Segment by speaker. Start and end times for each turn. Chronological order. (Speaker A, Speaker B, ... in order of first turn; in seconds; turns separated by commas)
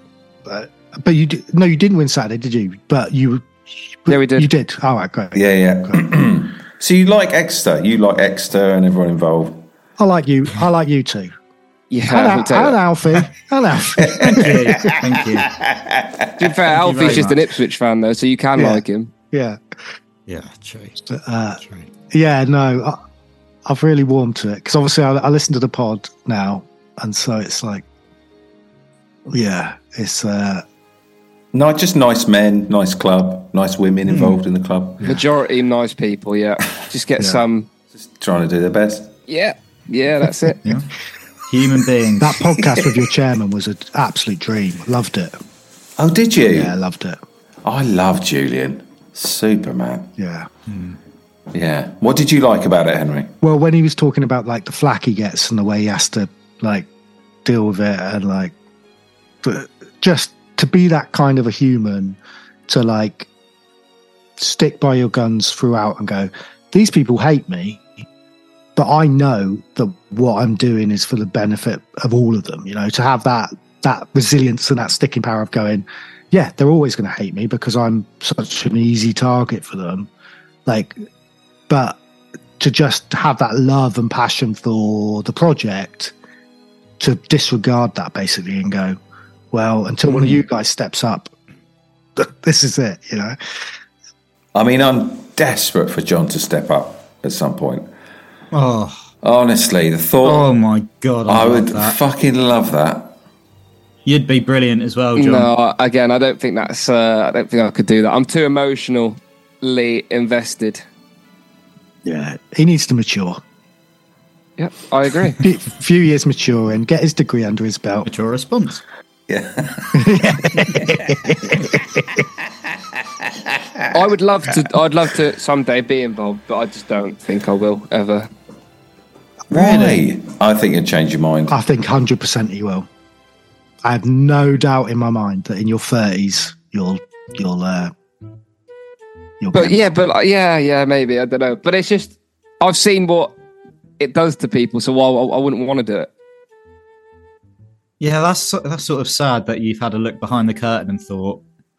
Speaker A: 0.5-6.0, Speaker B: 4.1-4.5, Speaker C: 5.3-9.7, Speaker A: 10.0-11.3, Speaker B: 11.9-12.8, Speaker A: 12.1-14.7, Speaker C: 14.0-16.3, Speaker D: 14.2-15.5, Speaker B: 16.4-19.1, Speaker D: 16.6-17.4, Speaker A: 18.6-19.6, Speaker D: 20.3-21.0, Speaker A: 21.0-23.0, Speaker D: 21.6-21.9, Speaker A: 23.7-27.9, Speaker A: 29.3-30.6, Speaker C: 31.5-35.1, Speaker D: 34.1-34.4, Speaker B: 35.0-37.7, Speaker C: 38.1-39.2, Speaker B: 39.3-40.6, Speaker D: 40.6-40.9, Speaker D: 41.5-42.4, Speaker A: 42.2-45.4, Speaker C: 46.0-46.7, Speaker A: 46.5-47.2, Speaker C: 47.6-50.1, Speaker A: 50.2-50.5, Speaker D: 50.7-51.0, Speaker C: 51.5-53.3, Speaker A: 53.4-56.9, Speaker A: 57.5-58.5, Speaker A: 59.4-63.3, Speaker A: 64.4-67.9, Speaker A: 68.8-80.1, Speaker A: 80.7-81.0, Speaker A: 81.7-82.0, Speaker A: 82.6-86.2, Speaker A: 87.0-89.0, Speaker A: 89.5-91.3, Speaker D: 90.1-90.4, Speaker A: 92.2-93.4, Speaker C: 94.5-97.9, Speaker D: 98.5-99.0, Speaker C: 99.2-100.5, Speaker D: 100.2-102.0, Speaker C: 101.3-103.2, Speaker D: 104.0-105.5, Speaker B: 105.2-110.8, Speaker A: 112.0-113.4, Speaker B: 114.6-115.4, Speaker A: 115.4-118.1, Speaker D: 118.0-118.8, Speaker C: 119.3-121.3, Speaker A: 119.9-122.0, Speaker C: 123.3-123.9, Speaker B: 123.9-128.3, Speaker A: 129.5-130.0, Speaker C: 129.5-131.6, Speaker D: 129.6-129.9, Speaker A: 131.5-132.9, Speaker A: 133.8-137.9, Speaker A: 139.4-139.8, Speaker B: 139.5-143.3, Speaker B: 144.0-146.1, Speaker D: 148.0-151.4